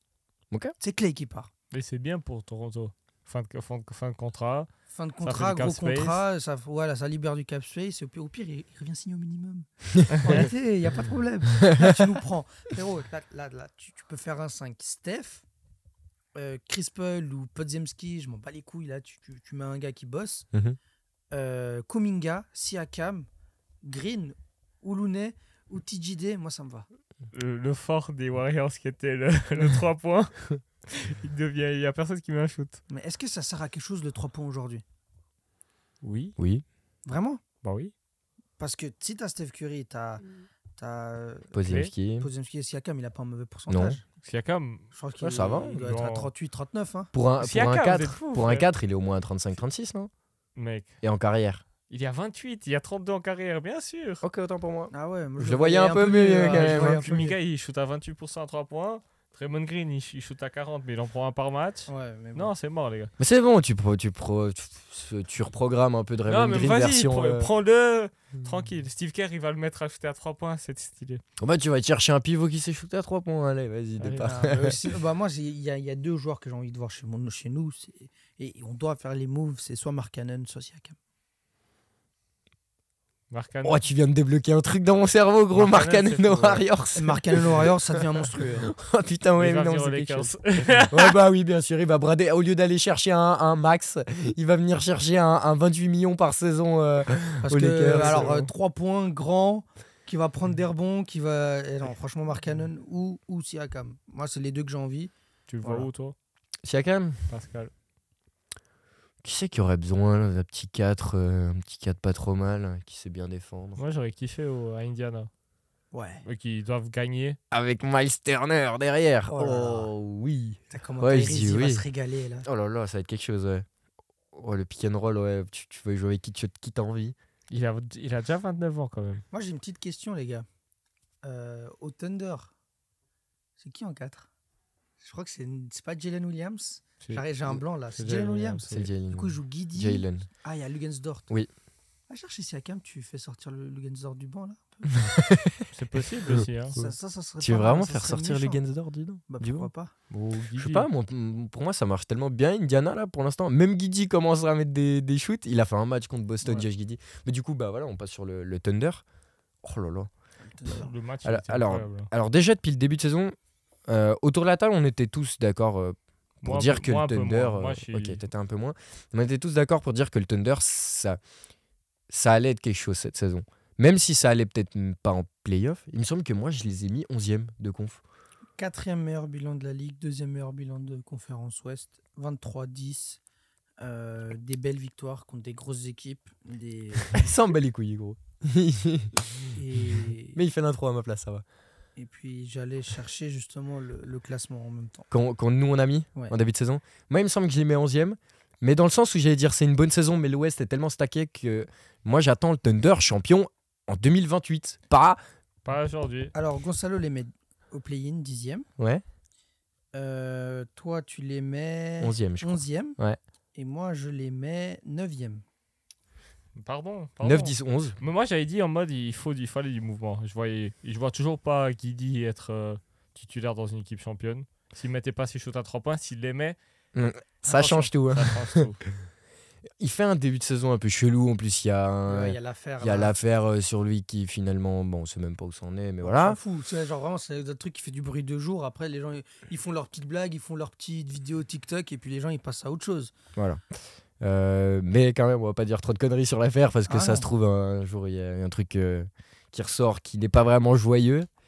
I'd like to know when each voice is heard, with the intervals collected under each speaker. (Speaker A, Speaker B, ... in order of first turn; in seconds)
Speaker A: 0.5-0.8, 11.6-11.9, 36.4-36.6, 41.5-42.3, 43.7-44.0, 45.2-45.8, 47.1-50.1, 51.0-51.6, 54.2-57.0, 63.2-67.5, 71.4-74.8, 83.6-90.4, 90.9-98.3, 106.6-107.2, 109.2-113.8, 117.5-121.8, 122.4-123.7, 124.3-127.1, 138.7-140.3, 144.9-145.7, 146.3-149.7, 150.6-159.0, 159.6-160.1, 161.2-163.3, 163.9-171.2, 172.1-178.0, 187.1-189.6, 190.3-191.4, 195.1-205.2, 212.0-213.2, 217.2-218.0, 226.9-228.9, 229.8-236.4, 243.3-251.3
Speaker B: 0.8-1.5, 4.9-15.4, 16.3-20.5, 21.3-23.3, 23.8-26.9, 32.9-34.8, 37.0-37.4, 38.6-40.2, 40.8-41.6, 42.2-44.0, 44.9-47.1, 54.9-57.4, 61.9-62.5, 74.2-81.0, 87.0-88.7, 97.4-105.9, 115.9-116.2, 119.3-119.9, 120.7-122.5, 129.3-130.4, 131.2-132.5, 133.6-134.3, 135.0-141.3, 142.1-145.1, 146.8-148.6, 149.3-149.9, 160.4-160.9, 178.6-183.2, 183.8-187.3, 189.5-190.4, 191.9-195.1, 206.3-208.7, 209.9-213.0, 213.5-215.4, 232.1-233.2, 236.0-243.1, 246.9-247.3
Speaker C: 1.7-4.7, 5.2-6.2, 10.1-10.5, 27.3-32.8, 36.0-36.4, 37.6-37.9, 44.2-44.9, 45.8-46.3, 47.4-48.7, 50.5-51.0, 51.9-54.2, 56.4-63.1, 66.2-71.2, 74.0-74.3, 83.3-83.8, 85.5-86.6, 89.4-91.2, 97.9-98.5, 105.5-106.1, 107.3-107.7, 113.8-115.3, 116.2-117.4, 127.5-129.2, 137.9-138.9, 145.7-146.8, 150.1-150.9, 160.7-162.1, 166.4-168.2, 205.6-206.3, 216.6-226.6, 227.4-228.8